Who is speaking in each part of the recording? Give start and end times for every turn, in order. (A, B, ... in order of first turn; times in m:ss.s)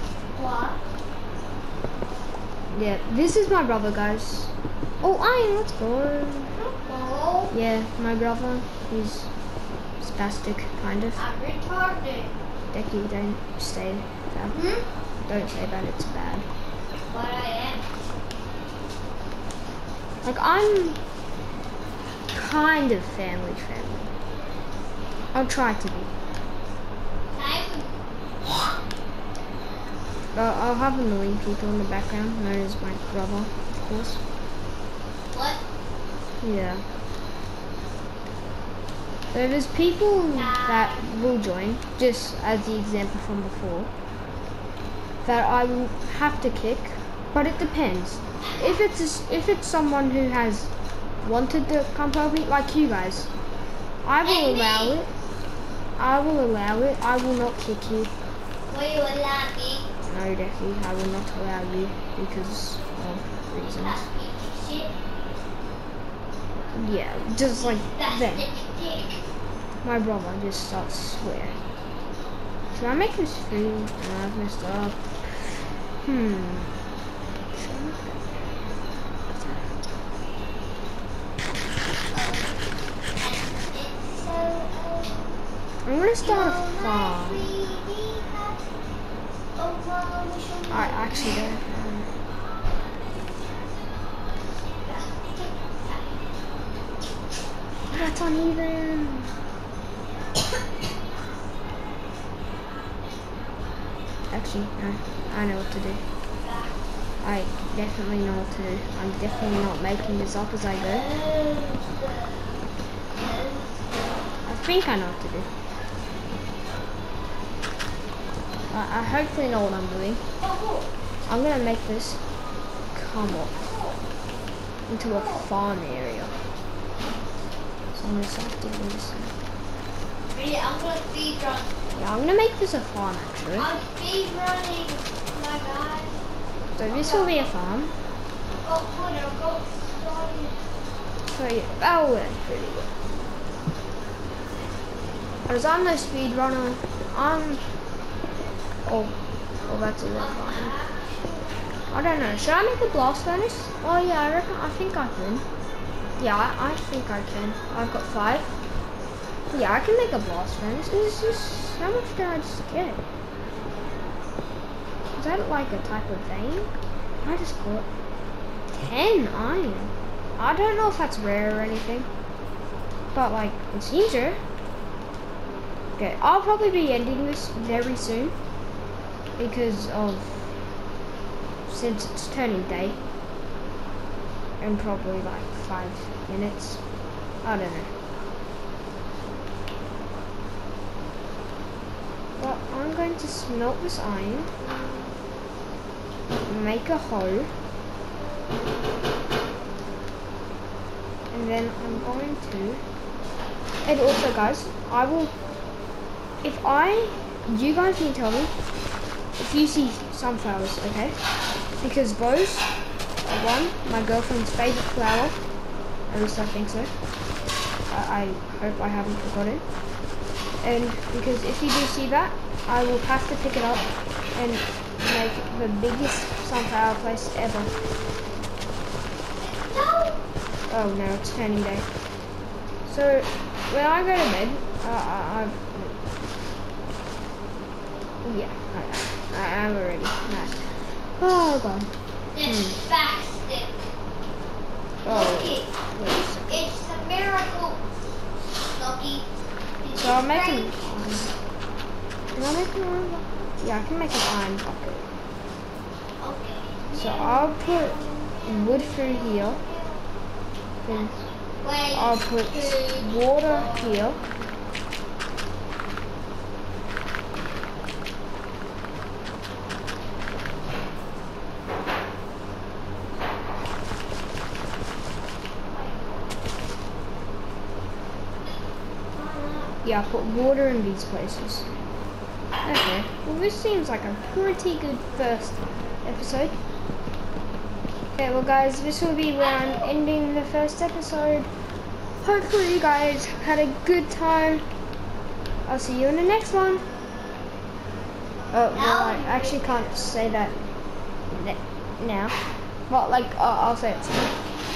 0:00.3-0:00.8 A
0:02.7-0:06.6 B
0:06.6-0:07.5 A
0:07.5-0:09.3 B
0:10.0-0:11.2 B
0:11.2-0:12.3 A
0:12.7-0:16.4 B
0:14.5-0:14.8 A
0:17.1-0:17.8 A
0:20.2-0:21.0 B
0:22.3-0:24.1 B
0:25.3-0:26.1 B
0:27.3-0:28.7 A
0:30.3-0:34.2 B
0:35.3-0:35.6 A
0:36.4-0:36.8 B
0:39.3-0:43.9 B
0:40.3-0:41.0 A
0:45.2-0:50.7 B
0:51.2-0:53.3 B
0:54.0-0:55.1 B
0:54.2-0:55.0 A
0:56.0-0:58.1 B
0:58.7-0:59.9 A
1:00.0-1:04.0 B
1:03.6-1:04.9 A
1:06.7-1:08.5 B
1:07.6-1:09.2 A
1:09.8-1:11.6 B
1:12.7-1:16.8 B
1:17.5-1:18.3 B
1:22.1-1:22.6 A
1:23.2-1:25.5 A
1:25.8-1:27.6 B
1:26.2-1:28.6 A
1:29.6-1:31.6 A
1:30.7-1:32.1 B
1:34.8-1:36.2 A
1:37.9-1:39.3 B
1:44.3-1:46.0 B
1:46.4-1:46.8 A
1:47.2-1:51.2 B
1:50.8-1:52.5 A
1:53.1-1:54.1 A
1:54.4-1:55.5 B
1:58.7-2:00.2 B
2:00.4-2:00.9 A
2:01.3-2:02.2 B
2:02.9-2:03.5 B
2:03.5-2:04.0 A
2:04.9-2:06.4 B
2:05.1-2:05.5 A
2:07.9-2:09.3 B
2:10.3-2:11.7 A
2:11.9-2:13.7 B
2:13.5-2:16.2 A
2:16.8-2:17.9 B
2:16.9-2:17.5 A
2:18.6-2:20.6 A
2:21.3-2:22.9 B
2:25.5-2:27.6 B
2:28.8-2:29.1 B
2:29.6-2:30.8 B
2:30.2-2:31.7 A
2:31.9-2:35.4 B
2:36.2-2:38.5 B
2:39.5-2:43.0 B
2:45.2-2:47.9 B
2:48.7-2:52.1 B
2:53.1-2:54.4 B
2:56.0-2:58.3 B
2:59.4-3:00.5 B
3:01.7-3:03.0 B
3:04.6-3:06.8 B
3:07.4-3:07.9 B
3:12.4-3:14.5 B
3:16.4-3:17.5 B
3:21.3-3:22.8 B
3:23.8-3:25.3 B
3:26.4-3:28.5 B
3:29.4-3:31.2 B
3:31.8-3:32.7 B
3:33.2-3:35.4 B
3:36.1-3:36.9 B
3:37.9-3:39.6 B
3:40.6-3:47.7 B
3:49.4-3:50.2 A
3:50.7-3:51.9 B
3:52.8-3:56.0 B
3:58.2-4:02.8 B
4:02.3-4:03.9 A
4:05.0-4:06.7 B
4:05.0-4:07.8 A
4:08.6-4:09.3 A
4:09.8-4:10.9 A
4:09.9-4:11.3 B
4:12.3-4:15.1 B
4:16.2-4:20.0 A
4:16.9-4:19.6 B
4:20.8-4:21.1 B
4:20.9-4:24.2 A
4:21.9-4:24.2 B
4:35.7-4:36.4 A
4:39.1-4:39.8 A
4:39.8-4:41.7 B
4:42.6-4:46.6 B
4:48.1-4:51.5 B
4:49.4-4:49.9 A
4:52.2-4:54.6 B
4:55.6-4:56.8 B
4:58.5-5:00.7 B
4:58.7-5:00.1 A
5:01.3-5:04.4 B